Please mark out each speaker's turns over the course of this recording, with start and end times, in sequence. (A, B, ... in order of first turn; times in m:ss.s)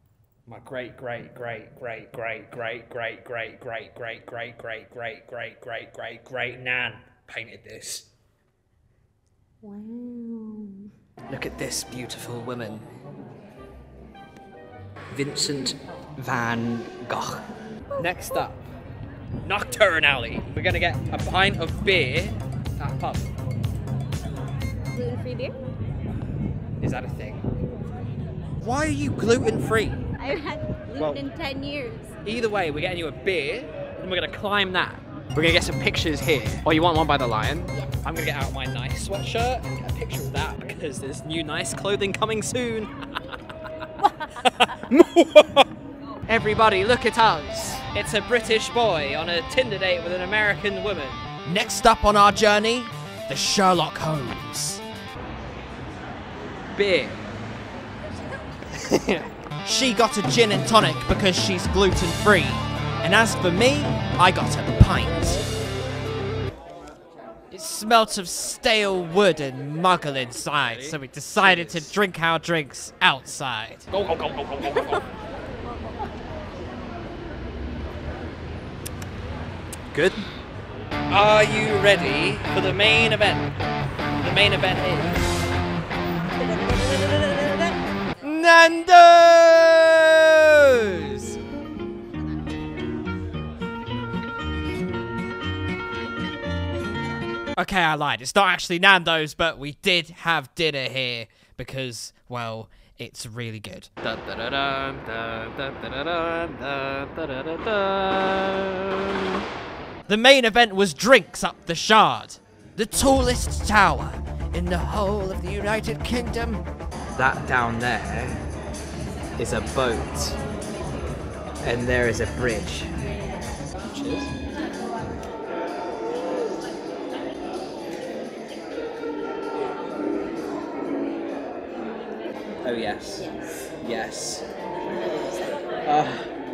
0:00.4-0:08.1 A
0:09.6-0:10.9 B
0:11.3-0:12.9 A
0:15.1-0:17.5 A
0:18.0-0:18.6 A
0:19.4-0:23.3 A
0:24.9-0:25.6 B
0:26.8-0:27.4 A
0:28.6-0:30.0 A
0:30.2-0:32.1 B
0:31.0-0:31.2 A
0:32.2-0:43.4 A
0:44.2-0:45.7 A
0:46.3-0:51.2 A
0:51.4-0:54.8 C
0:56.7-0:57.2 A
0:58.7-0:59.3 A
0:59.6-1:05.4 C
1:07.5-1:13.9 C
1:10.4-1:11.9 A
1:13.9-1:15.1 A
1:21.1-1:23.5 A
1:24.2-1:25.3 A
1:26.4-1:27.8 B
1:28.2-1:31.4 C
1:37.6-1:44.0 C
1:44.0-1:48.6 A
1:50.1-1:56.6 C
1:57.2-1:58.4 A
1:59.4-2:00.4 A
2:01.6-2:02.9 A
2:03.8-2:04.3 A
2:12.6-2:14.5 A
2:15.8-2:16.3 A